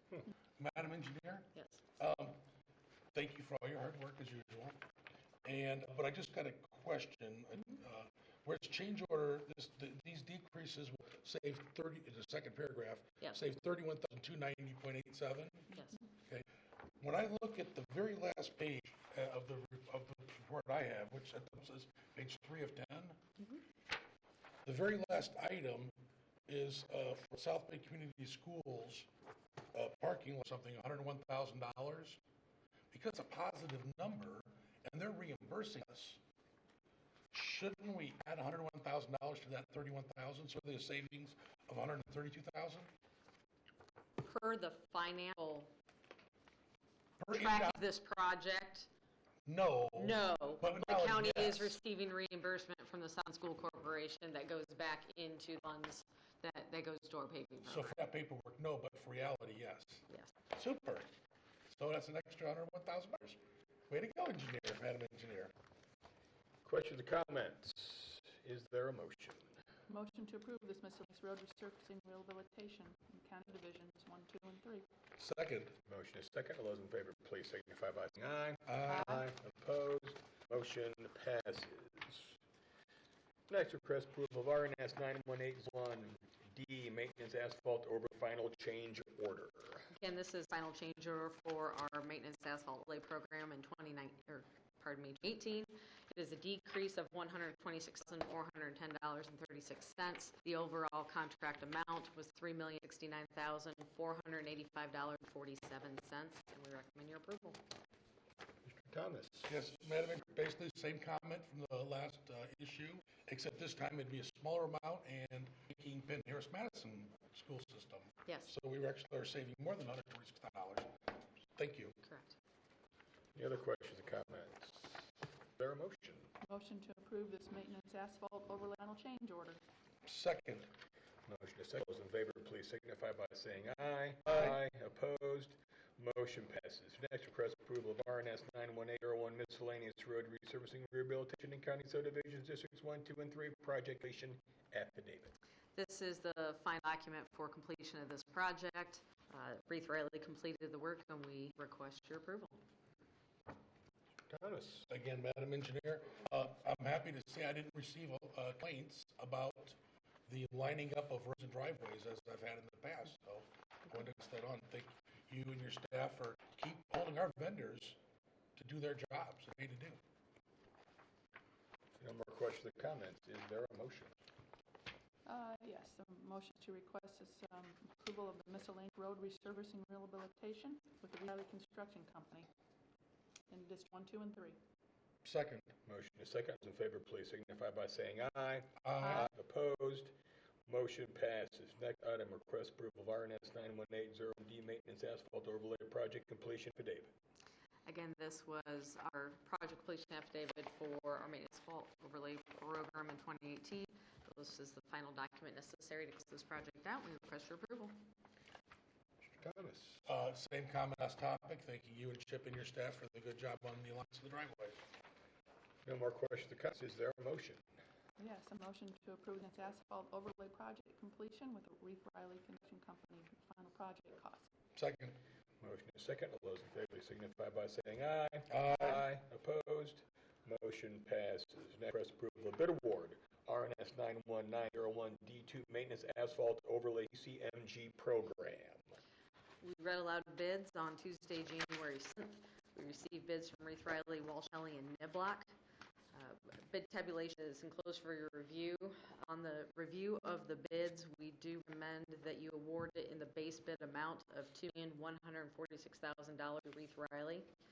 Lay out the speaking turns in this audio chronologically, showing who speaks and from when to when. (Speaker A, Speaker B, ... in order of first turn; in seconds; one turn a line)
Speaker A: 0.6-2.4
Speaker B: 1.5-1.8
Speaker A: 3.1-4.8
Speaker A: 5.4-16.5
Speaker B: 15.7-16.0
Speaker A: 17.0-23.2
Speaker A: 24.6-25.9
Speaker A: 26.5-29.1
Speaker A: 29.7-32.2
Speaker A: 32.9-36.2
Speaker A: 37.3-42.9
Speaker B: 44.2-45.7
Speaker A: 47.2-47.8
Speaker B: 47.3-48.9
Speaker A: 49.5-51.8
Speaker B: 50.0-58.0
Speaker A: 57.6-61.1
Speaker A: 61.7-65.5
Speaker C: 66.6-69.6
Speaker D: 69.9-74.9
Speaker A: 75.2-75.8
Speaker C: 75.8-82.4
Speaker A: 78.7-79.2
Speaker C: 83.5-89.9
Speaker B: 89.9-107.6
Speaker C: 108.6-109.5
Speaker A: 109.5-122.0
Speaker B: 118.2-118.5
Speaker B: 122.0-122.4
Speaker C: 123.3-126.3
Speaker D: 126.5-129.6
Speaker A: 130.1-130.7
Speaker C: 131.3-145.3
Speaker B: 145.8-152.6
Speaker C: 154.3-154.9
Speaker A: 154.9-168.0
Speaker A: 168.6-170.0
Speaker C: 172.0-174.1
Speaker D: 175.3-182.5
Speaker D: 183.5-184.6
Speaker A: 185.2-185.7
Speaker C: 185.8-190.1
Speaker A: 188.8-189.3
Speaker D: 189.0-189.3
Speaker C: 190.7-197.1
Speaker B: 197.9-208.0
Speaker C: 209.2-210.1
Speaker A: 210.1-214.8
Speaker C: 215.8-217.6
Speaker D: 218.2-224.5
Speaker A: 224.8-225.2
Speaker C: 225.6-239.0
Speaker A: 228.5-229.0
Speaker B: 239.6-245.5
Speaker B: 246.1-257.5